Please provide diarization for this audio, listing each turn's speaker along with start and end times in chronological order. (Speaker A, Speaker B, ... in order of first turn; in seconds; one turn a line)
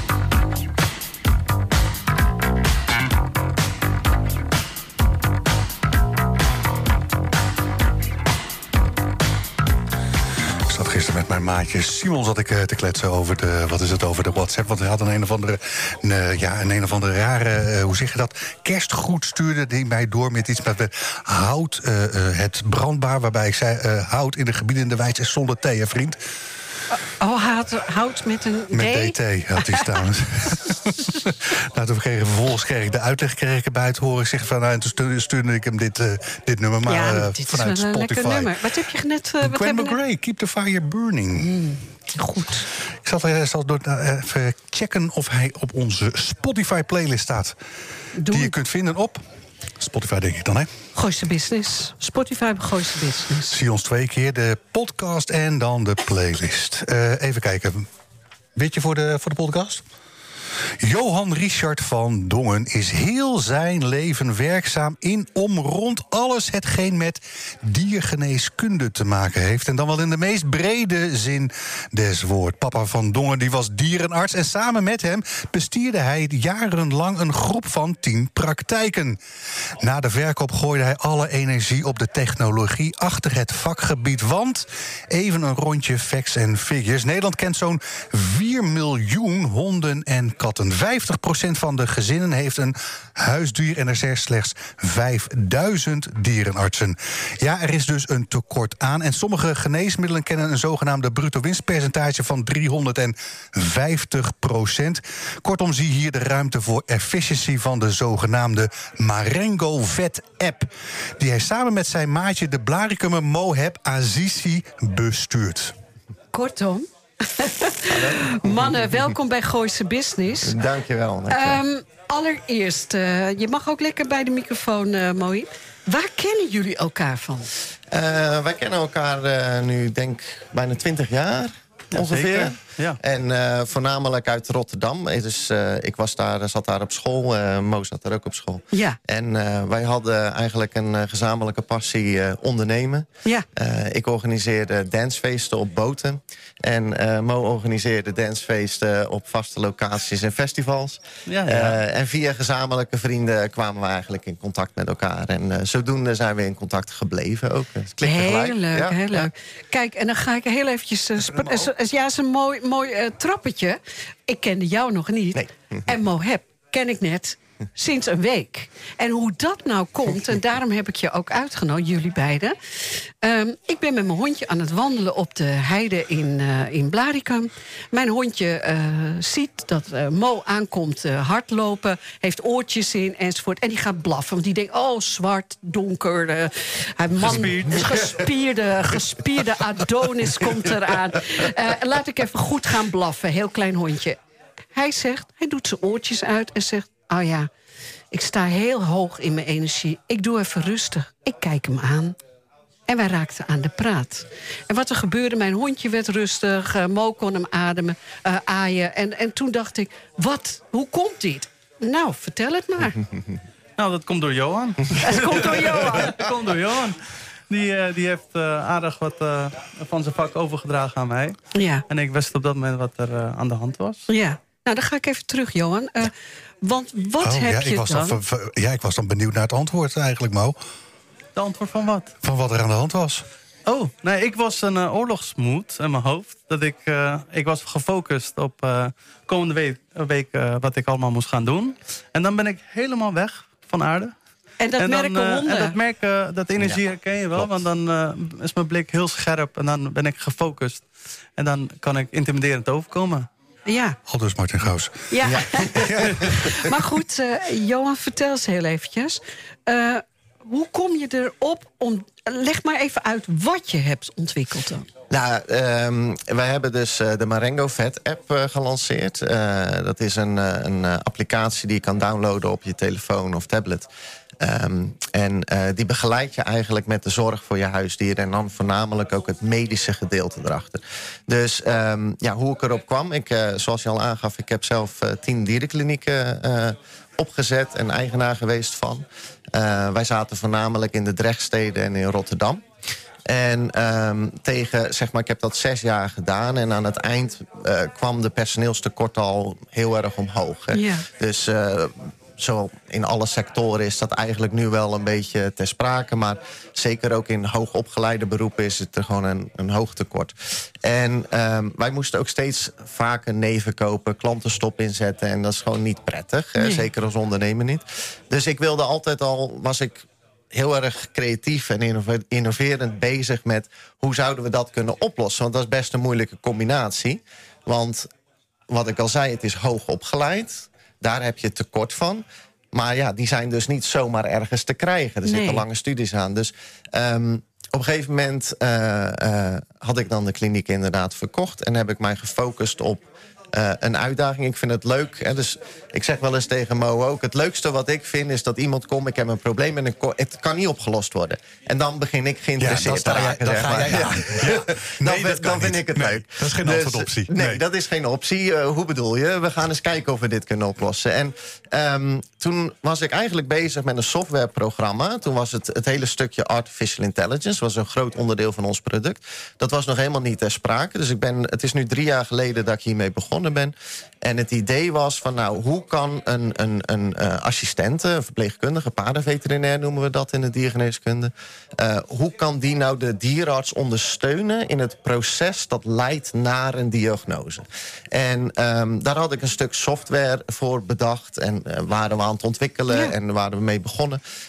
Speaker A: 10.7-26.2
Speaker B: 26.9-29.9
Speaker A: 28.7-38.6
Speaker B: 36.9-40.0
Speaker A: 39.4-41.6
Speaker B: 41.4-42.7
Speaker A: 43.0-47.5
Speaker B: 48.2-48.5
Speaker A: 48.3-49.2
Speaker A: 49.8-50.7
Speaker B: 50.9-53.6
Speaker A: 53.5-57.9
Speaker A: 58.5-59.8
Speaker A: 60.8-79.2
Speaker A: 79.8-115.7
Speaker B: 116.3-120.6
Speaker C: 117.9-119.1
Speaker C: 120.4-121.6
Speaker B: 121.3-127.5
Speaker C: 127.9-159.3
Speaker D: 131.9-133.0
Speaker B: 138.7-139.0
Speaker D: 151.3-151.8
Speaker B: 158.0-172.6
Speaker C: 165.3-165.8
Speaker B: 173.2-194.2
Speaker D: 187.3-188.2
Speaker B: 194.7-197.5
Speaker B: 198.1-202.2
Speaker B: 202.9-213.1
Speaker D: 213.8-217.0
Speaker B: 215.0-216.2
Speaker D: 217.5-221.4
Speaker B: 221.5-221.8
Speaker D: 221.9-224.1
Speaker B: 224.1-228.2
Speaker A: 227.2-230.6
Speaker D: 231.3-232.1
Speaker A: 232.2-233.2
Speaker D: 233.7-244.1
Speaker B: 244.6-245.7
Speaker D: 244.8-250.8
Speaker D: 251.4-253.3
Speaker B: 253.7-254.0
Speaker A: 254.1-256.4
Speaker B: 255.1-264.9
Speaker C: 255.2-256.2
Speaker C: 265.1-273.9
Speaker C: 274.4-292.6
Speaker C: 293.3-310.3
Speaker B: 300.7-301.1
Speaker C: 310.8-328.1
Speaker B: 316.6-316.9
Speaker C: 328.7-394.2
Speaker B: 335.2-335.6
Speaker A: 352.6-357.6